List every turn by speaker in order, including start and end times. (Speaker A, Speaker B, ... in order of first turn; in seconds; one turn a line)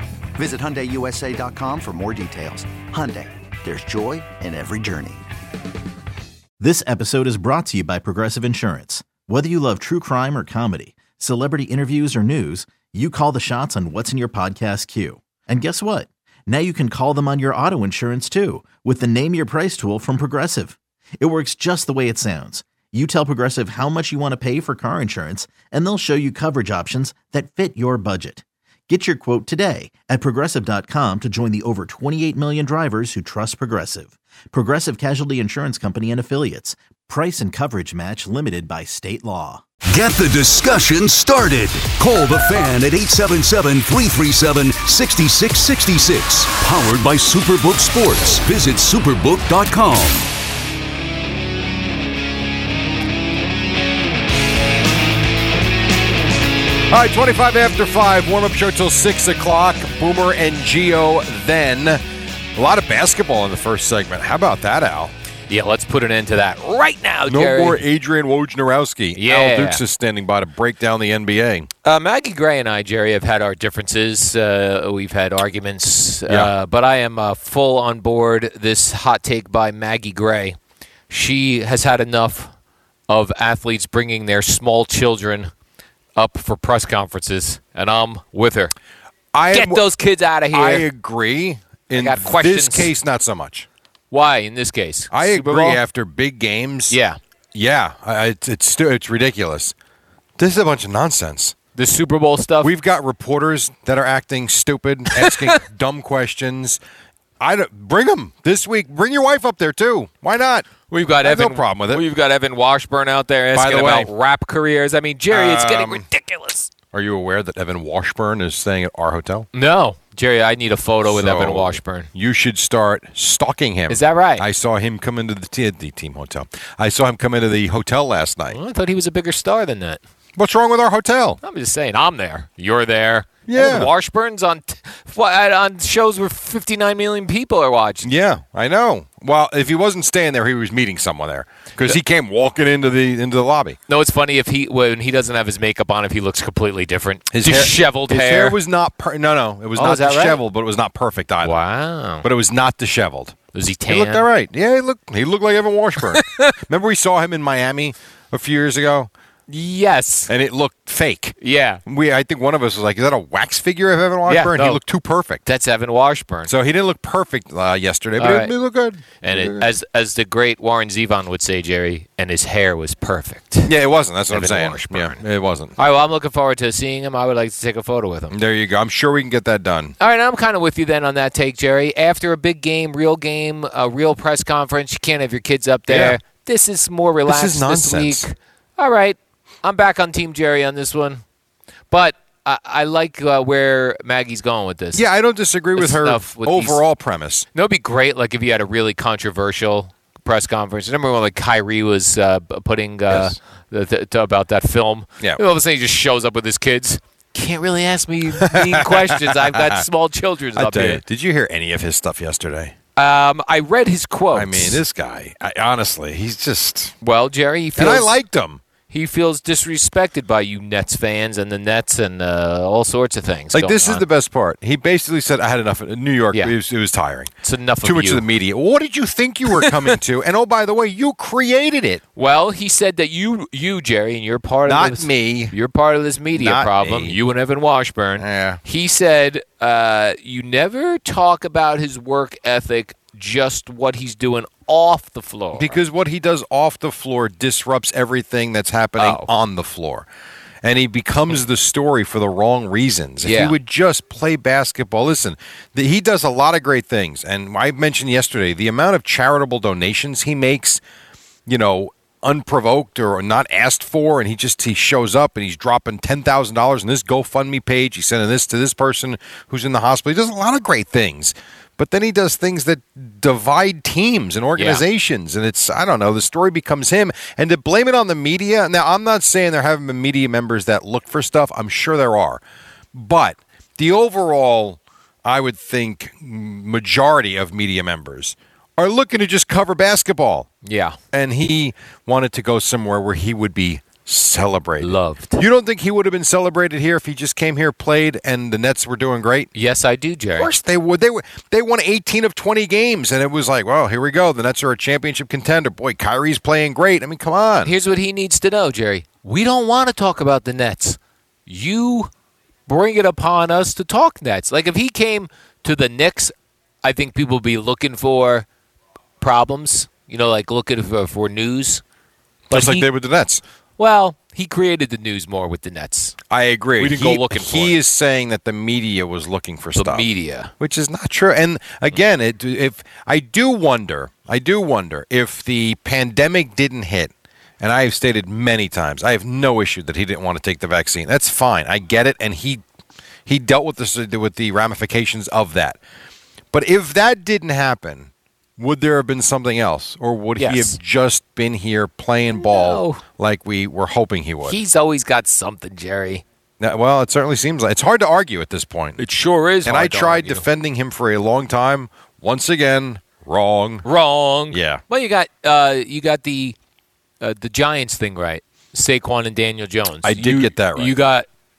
Speaker A: 0.4-5.2
Speaker B: 6.6-39.6
Speaker C: 39.9-50.2
Speaker A: 41.8-42.6
Speaker A: 43.3-44.9
Speaker A: 45.4-45.8
Speaker A: 47.2-49.7
Speaker D: 56.9-62.0
Speaker D: 62.6-65.1
Speaker E: 65.5-67.8
Speaker D: 67.3-71.7
Speaker E: 69.2-69.8
Speaker E: 71.8-80.6
Speaker E: 81.1-82.5
Speaker E: 83.1-85.5
Speaker E: 86.2-88.7
Speaker D: 89.3-89.9
Speaker E: 89.5-90.9
Speaker D: 90.5-93.7
Speaker E: 91.9-92.9
Speaker E: 94.1-95.8
Speaker D: 95.1-97.0
Speaker E: 96.9-97.2
Speaker D: 97.5-99.7
Speaker D: 100.4-101.5
Speaker E: 101.8-102.7
Speaker D: 102.6-106.8
Speaker E: 105.1-105.6
Speaker D: 107.4-110.7
Speaker E: 110.9-116.7
Speaker D: 111.2-112.0
Speaker D: 113.5-114.1
Speaker D: 115.3-116.0
Speaker D: 116.9-119.5
Speaker E: 119.5-122.1
Speaker D: 121.0-128.6
Speaker E: 123.9-124.5
Speaker E: 128.5-130.0
Speaker D: 130.4-131.4
Speaker E: 131.4-138.1
Speaker D: 133.5-133.9
Speaker D: 138.0-143.8
Speaker E: 143.9-148.6
Speaker D: 147.3-151.6
Speaker E: 149.8-150.4
Speaker E: 151.4-152.2
Speaker D: 152.2-159.1
Speaker E: 153.5-154.3
Speaker E: 156.0-156.5
Speaker E: 159.5-160.3
Speaker D: 160.3-165.4
Speaker E: 161.4-161.8
Speaker E: 164.3-164.8
Speaker E: 165.4-166.5
Speaker D: 166.5-169.7
Speaker E: 168.2-168.5
Speaker E: 169.2-173.7
Speaker D: 173.7-175.7
Speaker E: 174.3-175.2
Speaker E: 175.8-178.3
Speaker D: 178.3-180.0
Speaker E: 180.0-191.2
Speaker D: 185.9-186.2
Speaker D: 187.3-188.3
Speaker E: 191.9-195.0
Speaker D: 194.9-197.5
Speaker E: 195.8-196.8
Speaker E: 197.5-211.0
Speaker D: 203.1-203.4
Speaker D: 208.5-209.6
Speaker D: 210.6-212.7
Speaker E: 213.0-214.8
Speaker D: 214.3-216.9
Speaker E: 217.0-218.1
Speaker D: 217.8-218.6
Speaker E: 218.9-224.1
Speaker D: 223.5-227.3
Speaker E: 227.4-228.2
Speaker D: 227.8-232.0
Speaker E: 229.5-229.9
Speaker E: 232.2-245.8
Speaker D: 234.7-235.6
Speaker D: 236.4-237.2
Speaker D: 238.2-238.6
Speaker D: 245.6-250.1
Speaker E: 249.0-249.3
Speaker D: 250.6-260.8
Speaker E: 253.2-253.6
Speaker D: 261.5-282.4
Speaker E: 274.6-274.8
Speaker D: 282.9-290.5
Speaker E: 290.6-291.0
Speaker D: 291.1-299.5
Speaker E: 294.8-295.4
Speaker E: 299.5-300.5
Speaker D: 300.4-307.7
Speaker E: 307.6-312.1
Speaker E: 312.7-318.5
Speaker E: 319.2-321.8
Speaker D: 322.5-323.4
Speaker E: 322.5-322.9
Speaker E: 323.8-326.2
Speaker D: 326.3-330.1
Speaker E: 326.8-327.8
Speaker E: 329.8-330.5
Speaker D: 330.6-342.6
Speaker D: 343.3-345.8
Speaker D: 346.5-354.6
Speaker E: 350.4-350.8
Speaker E: 352.3-353.0
Speaker E: 354.4-356.2
Speaker D: 356.6-359.0
Speaker E: 359.0-360.5
Speaker D: 359.6-363.9
Speaker E: 363.8-366.6
Speaker D: 364.5-364.8
Speaker E: 367.2-371.3
Speaker D: 370.0-370.9